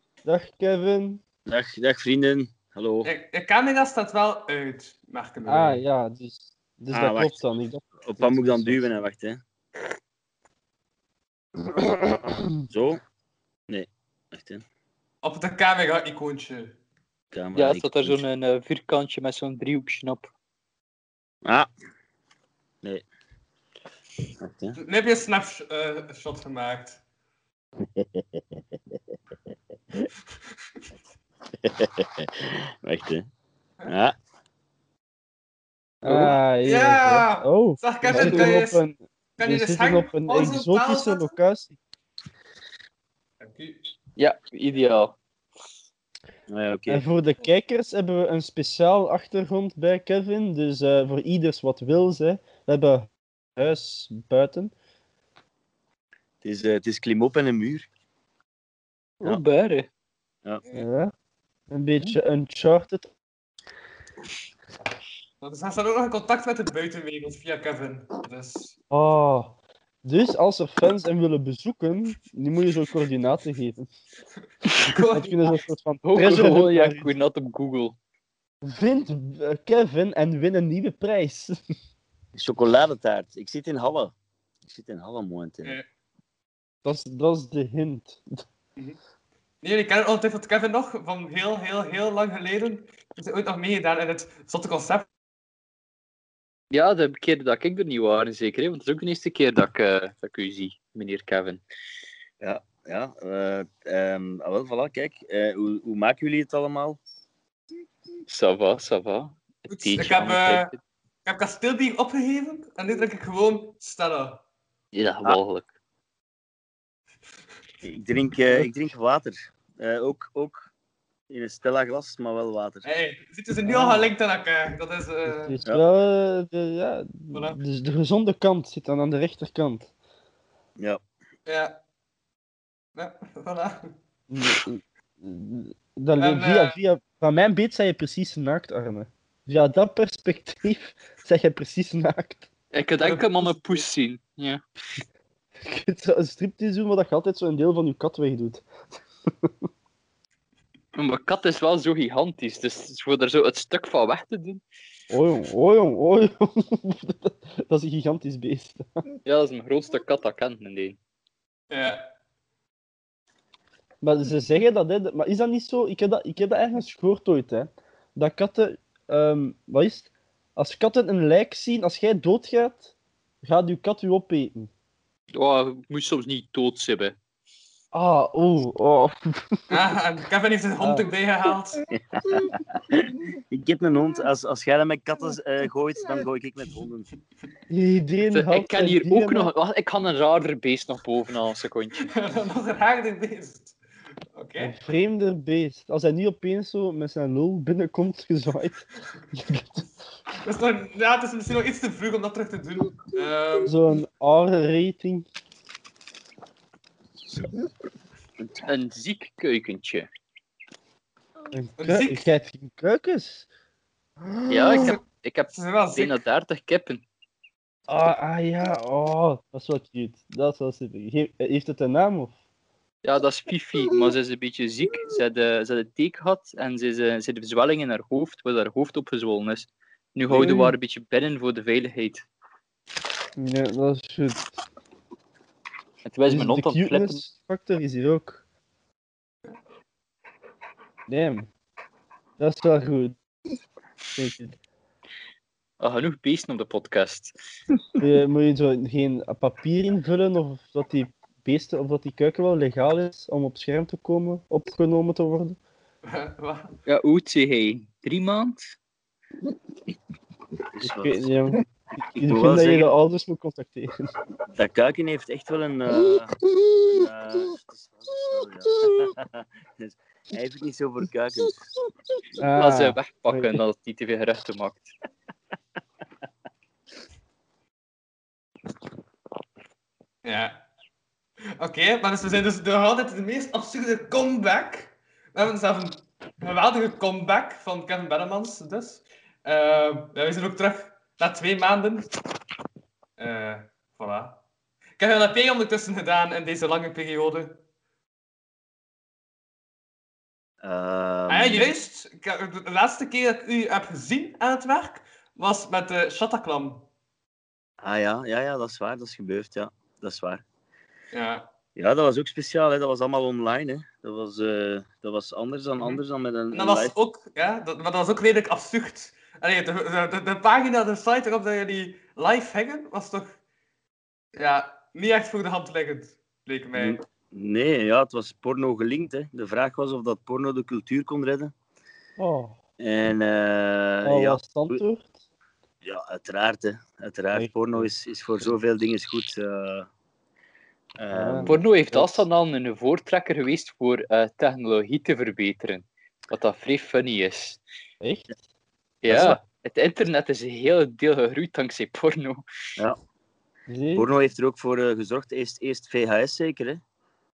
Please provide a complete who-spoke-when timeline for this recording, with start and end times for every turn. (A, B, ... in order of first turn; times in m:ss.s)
0:00.2-0:01.2 A
0:01.5-0:03.1 B
0:03.0-0:05.8 C
0:05.4-0:08.9 A
0:06.9-0:07.4 B
0:08.0-0:09.4 B
0:11.8-0:12.5 A
0:12.7-0:13.0 B
0:13.7-0:14.6 B
0:15.2-0:16.8 C
0:17.3-0:18.2 B
0:17.5-0:20.3 D
0:24.4-0:24.8 B
0:24.8-0:27.0 C
0:27.8-0:28.4 B
0:31.6-0:33.3 B
0:33.8-0:34.1 B
0:36.0-0:41.8 A
0:36.6-0:38.8 C
0:38.1-0:38.6 D
0:39.4-0:41.3 C
0:43.4-0:43.9 C
0:44.2-0:45.1 D
0:46.5-0:47.0 B
0:46.9-0:54.7 A
0:56.4-0:57.9 B
0:59.2-0:59.9 D
1:00.7-1:01.1 A
1:01.7-1:03.1 A
1:05.4-1:08.8 C
1:08.9-1:13.9 A
1:14.9-1:15.5 C
1:15.1-1:17.1 A
1:16.0-1:18.0 D
1:18.6-1:21.6 A
1:22.4-1:24.1 B
1:24.6-1:25.8 B
1:26.8-1:28.4 A
1:29.6-1:35.1 C
1:36.7-1:41.6 D
1:42.4-1:47.0 B
1:48.3-1:50.8 D
1:49.7-1:50.7 C
1:51.2-1:54.4 C
1:54.9-1:55.7 D
1:57.8-2:00.7 B
2:01.3-2:02.9 B
2:02.8-2:05.6 C
2:03.6-2:04.1 A
2:05.3-2:09.9 A
2:07.3-2:07.6 C
2:11.5-2:11.8 C
2:13.0-2:13.9 C
2:14.3-2:22.5 A
2:16.2-2:16.8 C
2:22.7-2:24.6 D
2:23.0-2:23.8 C
2:25.6-2:28.6 A
2:30.9-2:34.6 D
2:35.1-2:38.9 A
2:39.2-2:41.0 D
2:41.7-2:42.0 C
2:44.0-2:52.9 A
2:53.4-2:54.7 A
2:55.3-2:57.2 D
2:57.9-2:59.7 A
2:59.7-3:01.8 C
3:01.9-3:07.1 B
3:07.7-3:09.5 A
3:08.3-3:12.1 D
3:12.0-3:13.7 C
3:14.3-3:14.7 C
3:14.6-3:19.8 A
3:20.4-3:23.8 C
3:23.6-3:25.3 A
3:28.6-3:30.1 D
3:31.5-3:33.5 A
3:31.8-3:32.2 C
3:34.2-3:35.0 A
3:34.5-3:37.0 D
3:35.5-3:36.1 C
3:37.9-3:42.3 A
3:43.0-3:52.2 D
3:50.3-3:50.7 A
3:53.4-3:54.4 A
3:56.0-3:57.2 D
3:56.3-3:58.4 A
4:01.1-4:01.5 A
4:02.4-4:03.2 A
4:04.2-4:04.6 A
4:05.8-4:07.3 D
4:08.0-4:15.6 A
4:16.0-4:16.7 C
4:16.8-4:18.7 D
4:20.8-4:21.3 B
4:20.8-4:24.1 A
4:22.1-4:22.9 B
4:24.5-4:31.7 B
4:32.4-4:33.6 A
4:32.5-4:34.9 D
4:40.2-4:40.6 C
4:41.6-4:52.1 C
4:53.2-4:54.4 C
4:55.0-4:57.6 C
5:00.6-5:01.7 B
5:01.3-5:06.8 C
5:07.8-5:10.4 B
5:11.1-5:11.5 C
5:11.8-5:16.9 B
5:16.5-5:23.3 C
5:24.3-5:27.0 C
5:26.7-5:31.5 B
5:32.2-5:32.6 A
5:32.8-5:34.8 B
5:34.0-5:35.1 A
5:35.8-5:39.9 B
5:37.3-5:37.9 A
5:41.0-5:41.6 B
5:41.1-5:42.2 A
5:41.5-5:47.6 D
5:48.0-5:48.3 A
5:49.0-5:52.4 D
5:49.1-5:49.4 B
5:53.7-5:54.1 A
5:53.9-5:56.8 B